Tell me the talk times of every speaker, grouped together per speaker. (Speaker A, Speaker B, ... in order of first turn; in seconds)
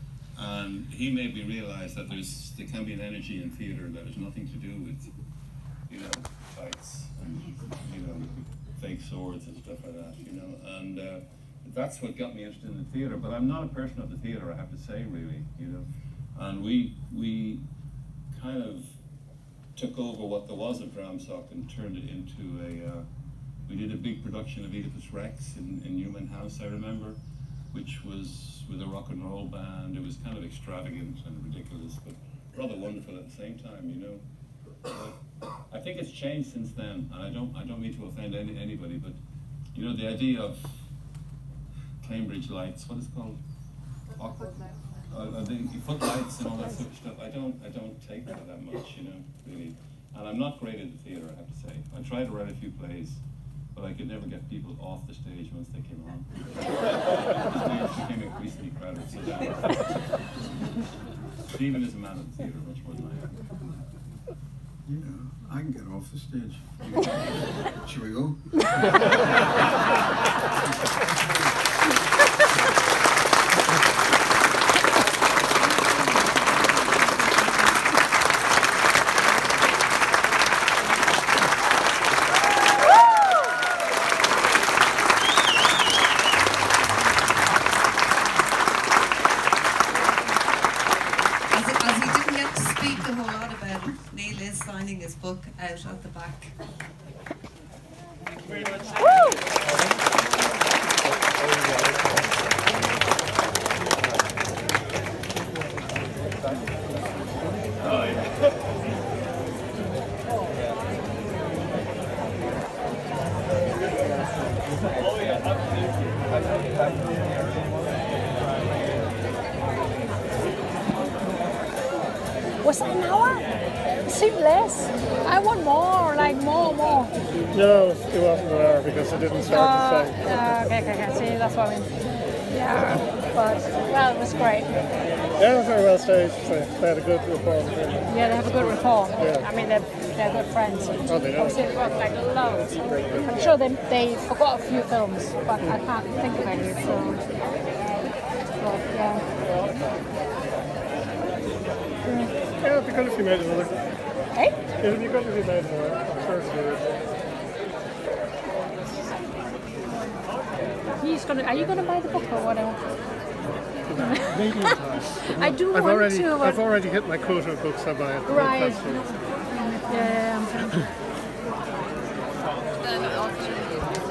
Speaker A: 0.3-5.1, 5.9-17.6, 18.3-19.0, 19.7-23.1, 23.7-27.2, 27.7-34.2, 34.8-35.2, 35.7-39.2, 39.7-40.9, 42.0-43.4, 44.2-53.2, 53.7-59.8, 61.5-63.5, 107.8-108.2
Speaker B: 64.8-69.6
Speaker C: 91.5-96.5, 172.9-173.9
Speaker D: 122.6-127.1, 129.5-131.9, 132.5-134.7, 138.1-147.2, 148.6-149.2, 152.0-152.3, 161.0-162.8, 164.0-164.7, 165.2-166.6, 168.2-169.1, 169.7-170.8
Speaker E: 127.5-130.2, 135.4-138.1, 141.1-141.6, 142.9-143.4, 152.6-153.7, 154.8-156.8, 163.9-169.1